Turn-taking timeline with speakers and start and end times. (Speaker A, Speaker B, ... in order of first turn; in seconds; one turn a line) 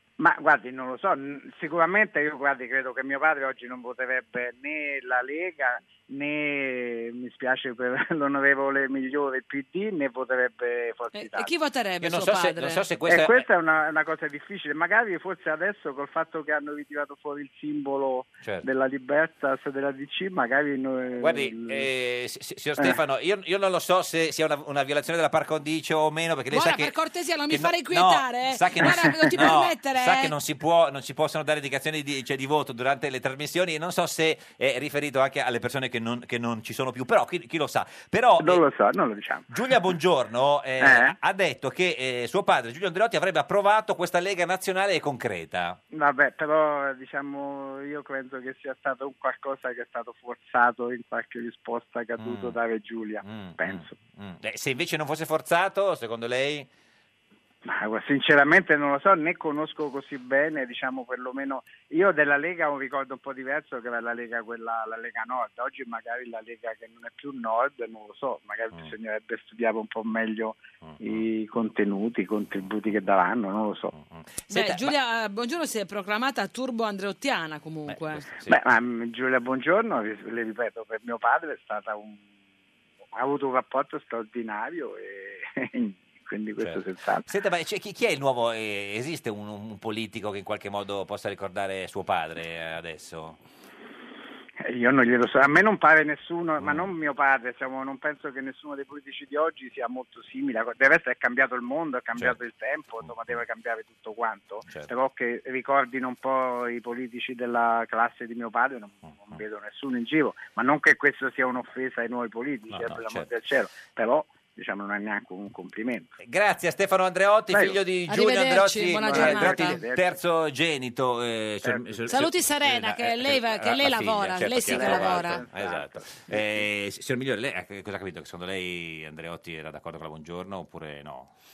Speaker A: 0.2-11.5
Speaker B: 11.1-12.8
Speaker C: 12.0-13.5
Speaker A: 13.1-21.9
Speaker C: 18.4-18.7
Speaker C: 21.2-26.9
Speaker B: 26.5-30.3
Speaker C: 27.5-38.7
Speaker A: 29.1-29.3
Speaker A: 38.4-39.8
Speaker C: 39.5-45.8
Speaker A: 40.8-41.1
Speaker A: 45.9-54.0
Speaker C: 52.2-52.6
Speaker C: 53.2-56.7
Speaker A: 57.6-73.9
Speaker C: 70.8-71.3
Speaker C: 72.6-73.0
Speaker C: 73.9-74.9
Speaker B: 74.5-78.2
Speaker C: 77.9-78.6
Speaker A: 78.5-82.2
Speaker A: 83.2-87.2
Speaker C: 86.6-93.4
Speaker A: 94.7-116.1
Speaker C: 96.6-96.9
Speaker C: 103.0-103.4
Speaker C: 109.1-109.4
Speaker C: 112.7-113.3
Speaker C: 116.2-131.3
Speaker A: 117.5-117.8
Speaker B: 118.1-119.8
Speaker A: 119.0-120.2
Speaker A: 121.6-122.1
Speaker B: 122.1-125.4
Speaker A: 124.6-126.7